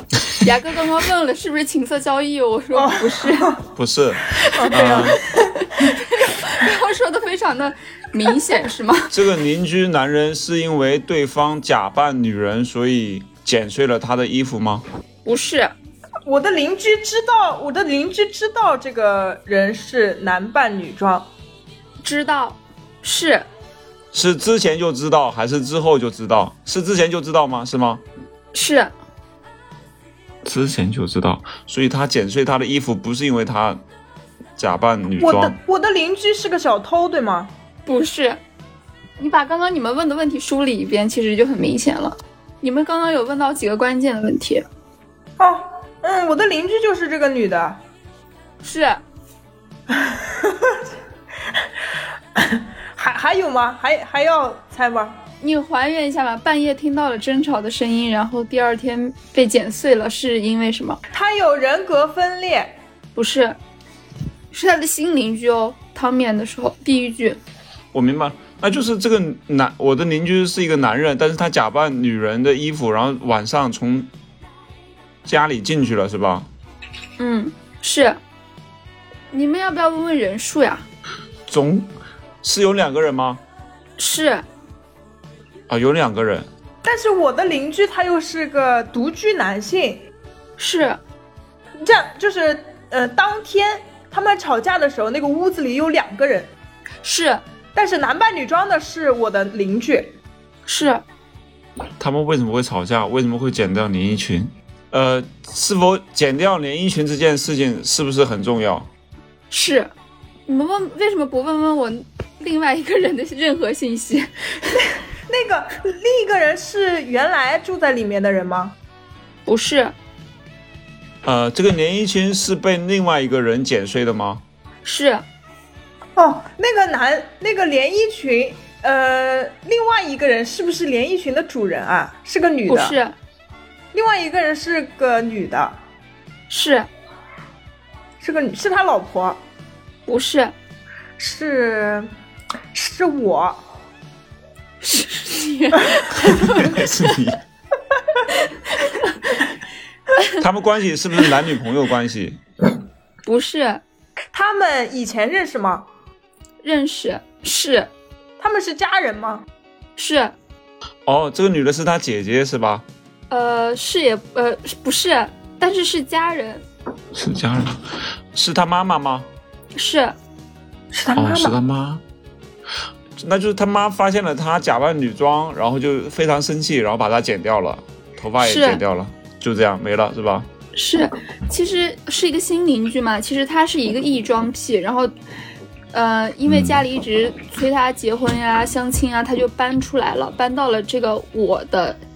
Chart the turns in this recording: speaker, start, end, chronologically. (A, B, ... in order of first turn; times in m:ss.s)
0:00.3-0:03.6 A
0:02.7-0:03.6 B
0:03.8-0:05.2 C
0:04.4-0:05.9 B
0:04.6-0:09.2 A
0:09.1-0:14.8 C
0:15.2-0:15.7 A
0:16.2-0:21.3 B
0:22.0-0:23.5 A
0:24.1-0:28.0 C
0:28.5-0:28.9 A
0:30.4-0:33.8 C
0:34.6-0:35.6 C
0:35.2-0:37.5 B
0:37.9-0:38.4 A
0:39.2-0:44.6 A
0:45.4-0:47.8 B
0:48.6-0:49.0 A
0:49.9-0:50.8 B
0:52.4-0:55.2 B
0:55.4-1:01.0 A
1:01.1-1:02.7 B
1:03.2-1:03.6 A
1:04.5-1:07.4 A
1:07.9-1:14.1 C
1:15.2-1:16.5 C
1:17.2-1:18.2 A
1:19.3-1:20.8 A
1:21.5-1:21.9 C
1:22.4-1:23.4 C
1:24.0-1:24.4 A
1:25.7-1:26.5 C
1:26.8-1:30.0 B
1:30.6-1:31.0 A
1:31.8-1:36.5 B
1:37.0-1:37.4 A
1:37.8-1:40.1 B
1:40.7-1:41.0 A
1:42.0-1:48.9 C
1:49.5-1:49.9 A
1:50.5-1:54.9 A
1:55.3-1:58.8 B
1:59.5-1:59.9 A
2:01.2-2:04.4 C
2:04.8-2:05.2 A
2:06.2-2:13.0 B
2:12.7-2:13.2 A
2:13.9-2:15.8 B
2:16.5-2:16.9 A
2:18.2-2:19.4 B
2:20.1-2:20.6 A
2:21.2-2:22.1 B
2:22.7-2:23.6 B
2:24.8-2:26.8 A
2:26.2-2:27.4 C
2:28.3-2:29.2 A
2:30.4-2:32.4 C
2:33.3-2:33.8 A
2:34.3-2:35.9 B
2:36.6-2:37.9 A
2:38.4-2:39.4 B
2:40.0-2:40.3 A
2:41.1-2:42.8 C
2:43.3-2:46.6 A
2:47.1-2:49.3 C
2:49.8-2:50.2 A
2:50.9-2:51.6 B
2:51.2-2:52.0 C
2:53.2-3:00.5 C
2:58.4-2:58.8 A
3:00.8-3:05.1 A
3:05.9-3:12.0 A
3:06.5-3:06.8 C